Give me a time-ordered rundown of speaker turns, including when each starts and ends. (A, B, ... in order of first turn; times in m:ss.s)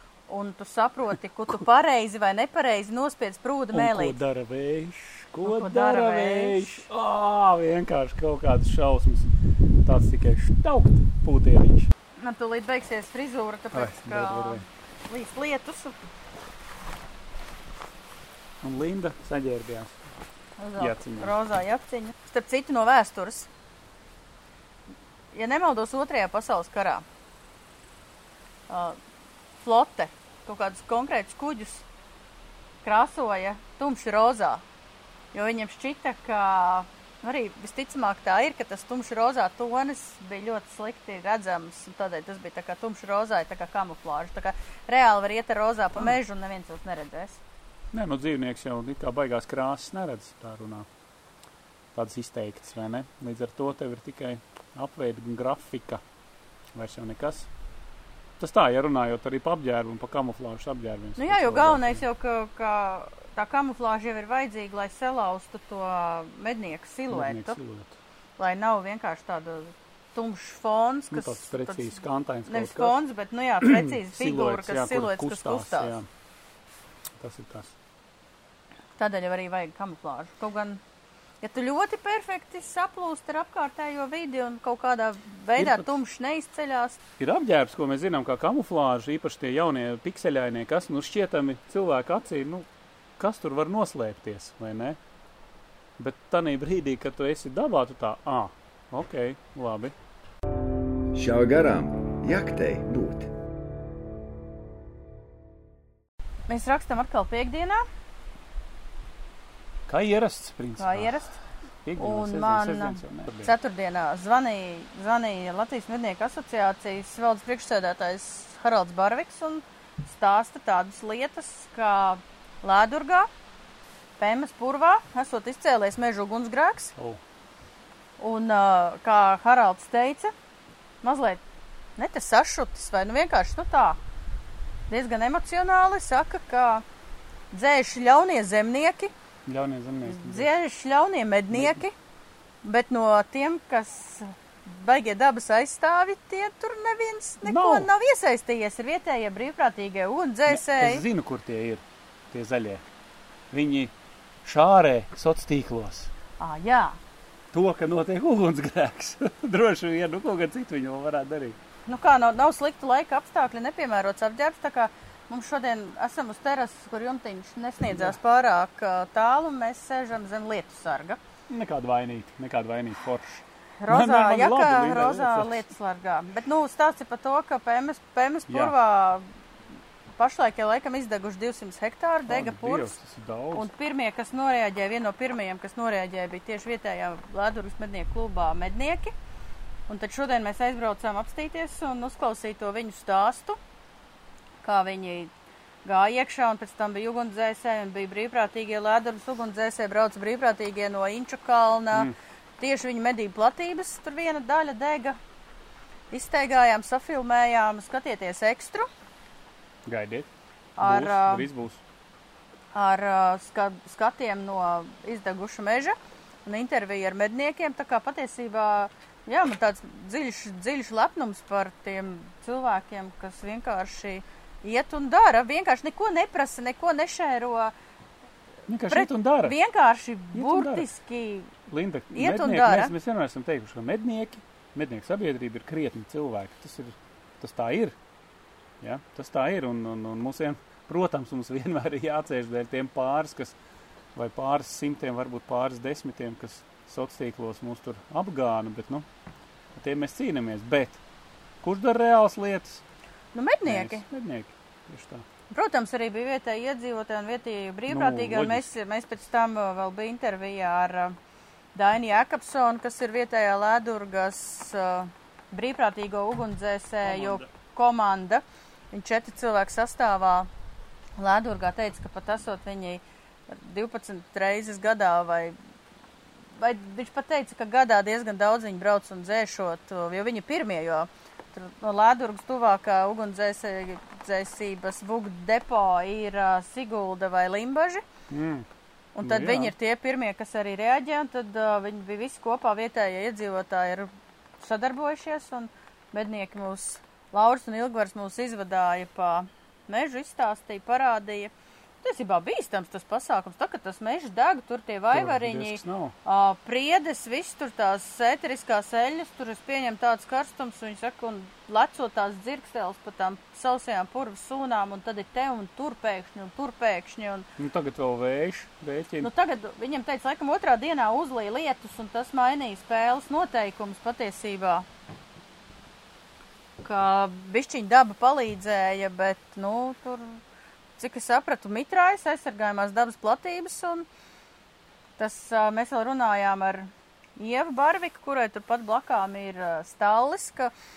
0:00.3-0:04.2 A
0:03.7-0:09.3 B
0:05.4-0:06.8 A
0:09.8-0:11.9 B
0:12.2-0:16.0 A
0:13.7-0:14.7 B
0:18.6-0:20.0 B
0:20.6-0:23.5 A
0:20.8-0:21.4 B
0:25.3-0:27.0 A
0:28.7-0:29.0 A
0:29.6-0:31.8 A
0:32.8-0:34.6 A
0:35.3-0:47.4 A
0:47.9-0:50.9 B
0:52.0-0:56.0 B
0:56.7-0:57.5 B
0:58.4-1:02.0 B
1:01.2-1:07.6 A
1:07.1-1:08.0 B
1:08.4-1:16.0 A
1:11.1-1:13.0 B
1:13.6-1:16.1 B
1:17.2-1:17.7 B
1:19.0-1:20.8 A
1:21.4-1:27.0 A
1:25.6-1:25.9 B
1:27.2-1:32.7 B
1:33.2-1:35.0 B
1:36.0-1:40.0 B
1:41.1-1:43.3 C
1:46.5-1:47.8 A
1:49.9-1:51.2 B
1:50.8-1:51.4 A
1:51.8-1:53.5 B
1:52.0-2:03.3 A
2:04.2-2:07.0 A
2:08.2-2:10.3 A
2:11.0-2:11.4 A
2:12.0-2:14.0 A
2:14.9-2:16.8 A
2:17.5-2:19.1 A
2:19.5-2:20.5 B
2:20.0-2:22.0 A
2:21.5-2:21.8 B
2:22.6-2:31.0 A
2:27.4-2:27.9 B
2:30.5-2:32.8 B
2:33.5-2:33.9 B
2:34.4-2:36.1 B
2:36.4-2:37.0 A
2:37.5-2:41.6 B
2:41.9-2:51.2 A
2:51.5-2:55.7 B
2:53.8-2:59.2 A
2:58.5-2:58.7 B
3:00.2-3:02.9 A
3:02.3-3:03.7 B
3:03.5-3:09.1 A
3:09.9-3:13.6 A
3:14.6-3:15.3 A
3:15.8-3:25.2 A
3:26.1-3:28.9 A
3:29.9-3:30.3 B
3:30.8-3:31.5 A
3:30.8-3:31.8 B
3:32.7-3:47.7 A
3:48.7-3:49.6 B
3:48.9-3:51.5 A
3:50.3-3:50.9 B
3:51.7-3:58.0 B
3:52.1-3:52.9 A
3:58.8-4:03.6 B
4:04.2-4:09.1 B
4:09.7-4:11.0 B
4:11.6-4:12.8 B
4:13.3-4:14.0 A
4:13.6-4:15.3 B
4:15.5-4:21.2 A
4:17.9-4:18.7 B
4:21.8-4:30.5 A
4:27.0-4:27.5 B
4:31.2-4:35.6 A
4:36.6-4:48.0 A
4:48.3-4:48.7 B
4:49.2-5:17.5 A
4:49.2-4:49.7 B
5:05.1-5:06.2 B
5:17.6-5:19.3 B
5:19.2-5:24.9 A
5:26.8-5:30.4 A
5:31.0-5:34.1 A
5:35.2-5:40.7 A